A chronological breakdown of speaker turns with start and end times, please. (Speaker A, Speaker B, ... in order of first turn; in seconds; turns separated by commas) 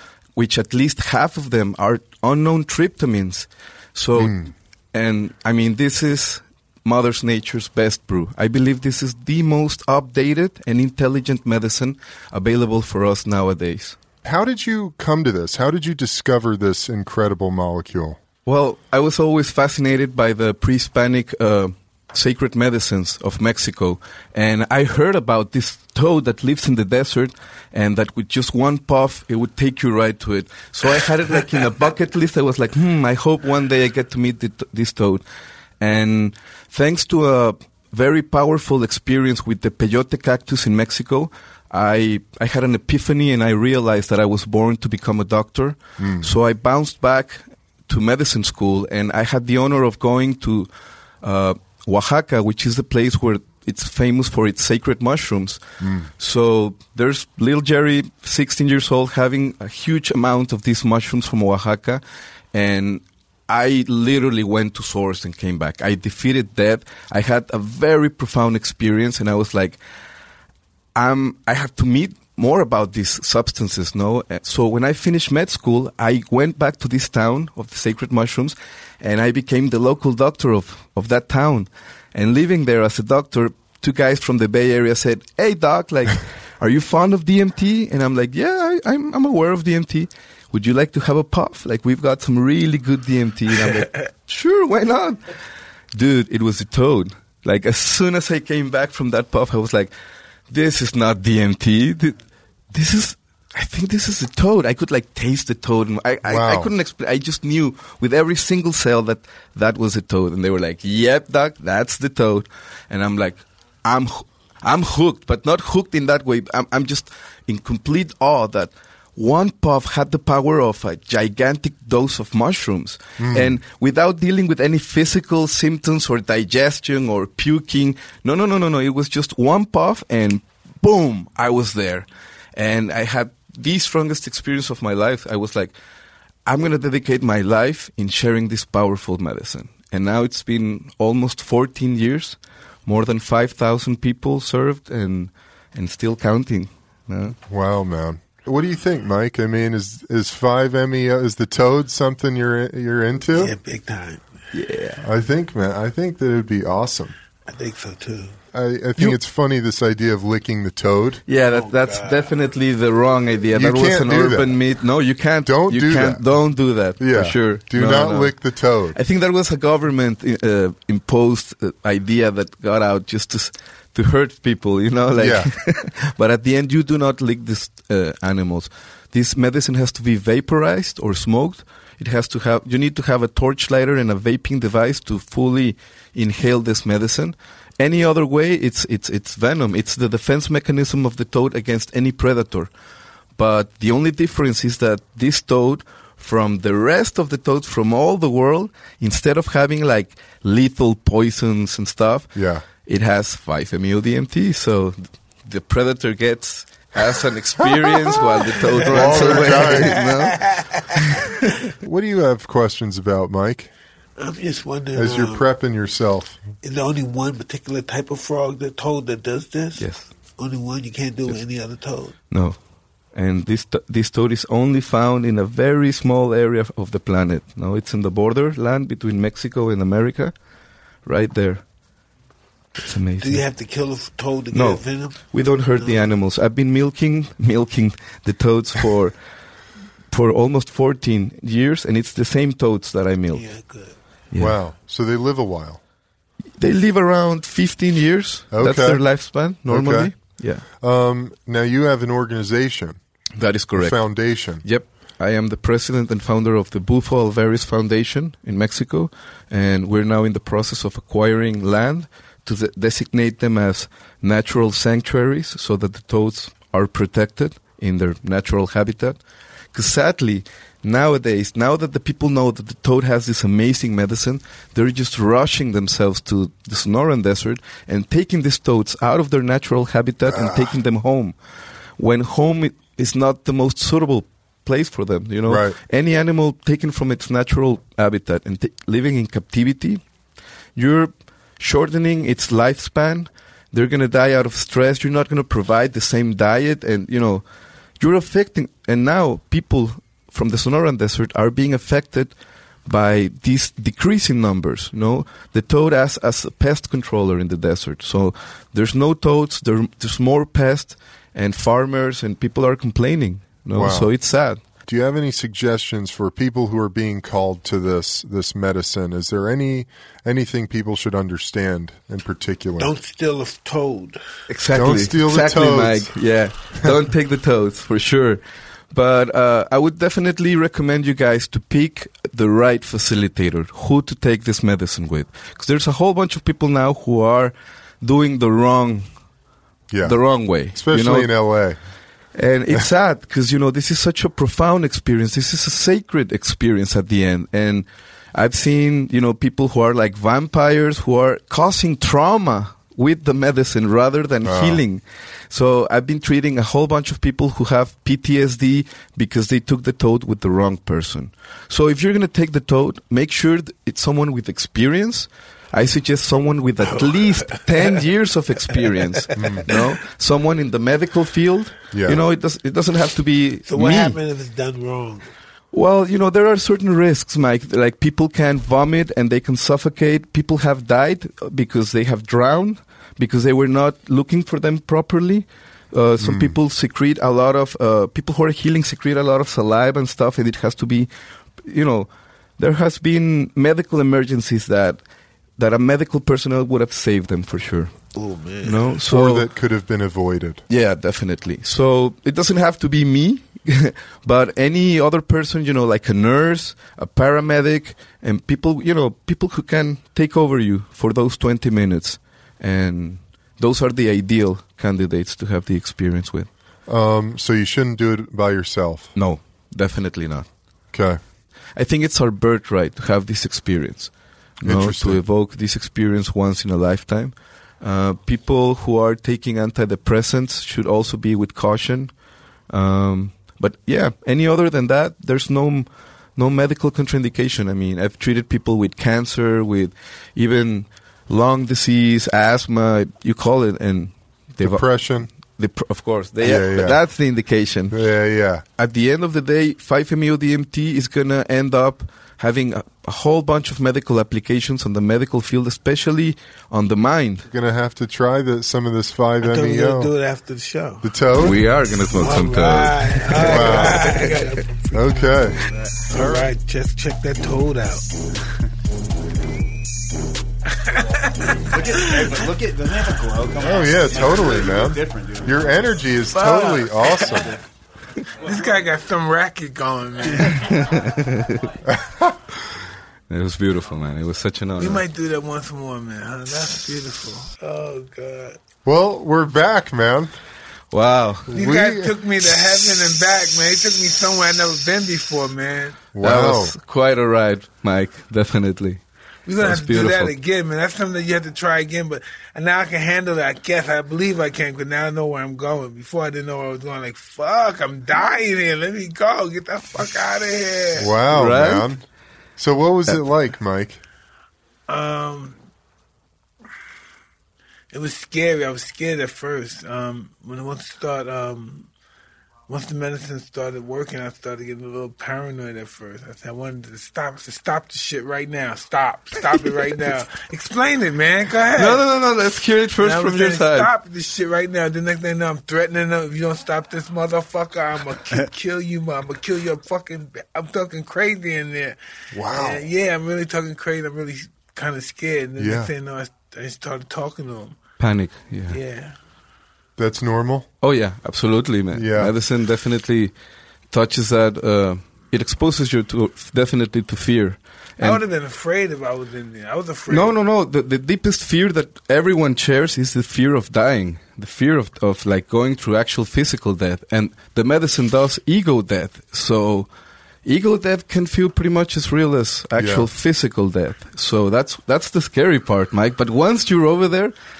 Speaker A: 0.3-14.0, Speaker B: 4.2-4.5, Speaker B: 14.2-18.2, Speaker A: 18.4-35.2, Speaker A: 35.8-50.7, Speaker B: 46.0-46.3, Speaker A: 51.2-55.6, Speaker B: 55.8-56.1, Speaker A: 56.2-62.0, Speaker A: 62.5-69.8, Speaker A: 70.9-95.2, Speaker A: 95.9-99.9, Speaker A: 100.5-102.2, Speaker A: 102.7-135.7, Speaker B: 106.2-106.7, Speaker B: 123.2-123.5, Speaker A: 136.4-147.3, Speaker B: 147.5-153.5, Speaker C: 153.3-154.2, Speaker A: 154.5-155.0, Speaker B: 155.0-157.1, Speaker C: 157.5-158.4, Speaker B: 158.5-161.2, Speaker A: 161.3-168.3, Speaker C: 161.5-162.3, Speaker B: 163.5-164.5, Speaker B: 165.4-166.2, Speaker B: 167.0-169.0, Speaker A: 168.9-192.7, Speaker B: 175.2-175.5, Speaker A: 193.4-202.3, Speaker B: 202.3-202.6, Speaker A: 202.8-210.6, Speaker C: 208.6-211.2, Speaker B: 208.9-210.0, Speaker B: 211.8-213.7, Speaker C: 214.2-215.4, Speaker B: 214.9-216.4, Speaker C: 216.6-219.8, Speaker A: 219.8-220.1, Speaker C: 220.4-222.1, Speaker A: 222.3-222.6, Speaker A: 223.1-230.3, Speaker A: 231.0-231.6, Speaker A: 232.8-233.4, Speaker C: 233.2-236.0, Speaker A: 234.5-239.1, Speaker A: 240.1-243.4, Speaker C: 243.3-243.9, Speaker B: 244.4-245.8, Speaker A: 246.6-250.6, Speaker B: 248.5-249.0, Speaker B: 249.7-250.1, Speaker B: 250.8-253.0, Speaker A: 253.4-254.0, Speaker B: 253.8-254.6, Speaker A: 254.6-269.2, Speaker A: 269.7-281.3, Speaker B: 280.3-280.7, Speaker A: 282.0-290.0, Speaker B: 285.4-285.8, Speaker A: 290.8-297.4, Speaker A: 298.0-302.3, Speaker A: 302.9-314.6, Speaker B: 313.7-314.1, Speaker B: 314.9-322.9, Speaker C: 322.8-324.2, Speaker A: 324.5-328.4, Speaker B: 324.7-326.1, Speaker A: 328.9-339.1, Speaker B: 339.9-340.2, Speaker A: 340.0-341.3, Speaker B: 340.7-341.8, Speaker A: 342.3-374.2, Speaker B: 354.4-354.8, Speaker C: 367.1-367.6, Speaker B: 369.4-369.7, Speaker B: 371.9-372.2, Speaker C: 373.7-375.3, Speaker A: 375.7-391.1, Speaker B: 386.2-386.6, Speaker A: 391.6-395.0, Speaker A: 395.6-397.9, Speaker C: 398.1-398.9, Speaker A: 398.6-399.5, Speaker B: 399.1-400.6, Speaker A: 400.7-416.5, Speaker B: 416.9-419.1, Speaker A: 419.1-420.5, Speaker B: 420.9-421.2, Speaker A: 421.8-432.1, Speaker B: 424.6-425.2, Speaker A: 432.7-444.8, Speaker B: 444.6-445.3, Speaker A: 445.6-447.9, Speaker B: 446.4-447.0, Speaker B: 447.9-448.6, Speaker A: 448.8-457.4, Speaker B: 457.5-460.1, Speaker C: 459.4-461.1, Speaker B: 461.0-461.6, Speaker A: 461.3-464.4, Speaker C: 462.1-468.1, Speaker B: 463.4-464.2, Speaker B: 464.9-465.6, Speaker D: 465.7-466.5, Speaker C: 470.7-472.4, Speaker D: 471.7-475.9, Speaker B: 473.6-477.6, Speaker C: 476.3-477.5, Speaker C: 478.4-480.7, Speaker A: 480.6-481.6, Speaker B: 481.9-482.4, Speaker A: 483.3-485.0, Speaker C: 484.8-488.6, Speaker B: 488.8-490.4, Speaker A: 490.9-491.5, Speaker B: 491.5-492.1, Speaker C: 491.5-496.0, Speaker B: 496.1-496.7, Speaker A: 496.2-499.0, Speaker C: 499.4-511.1, Speaker A: 499.6-500.3, Speaker B: 511.0-512.0, Speaker A: 511.3-511.9, Speaker B: 512.6-514.0, Speaker C: 514.9-515.6, Speaker C: 517.9-521.9, Speaker C: 522.7-532.0, Speaker A: 531.7-533.9, Speaker C: 533.0-542.0, Speaker B: 542.3-542.8, Speaker C: 542.5-547.8, Speaker B: 545.6-545.9, Speaker A: 548.0-548.8, Speaker C: 548.7-549.2, Speaker B: 550.0-550.7, Speaker A: 550.8-553.3, Speaker B: 551.9-552.3, Speaker A: 553.9-558.2, Speaker C: 558.0-560.3, Speaker A: 560.1-569.9, Speaker A: 570.4-577.3, Speaker B: 572.8-573.1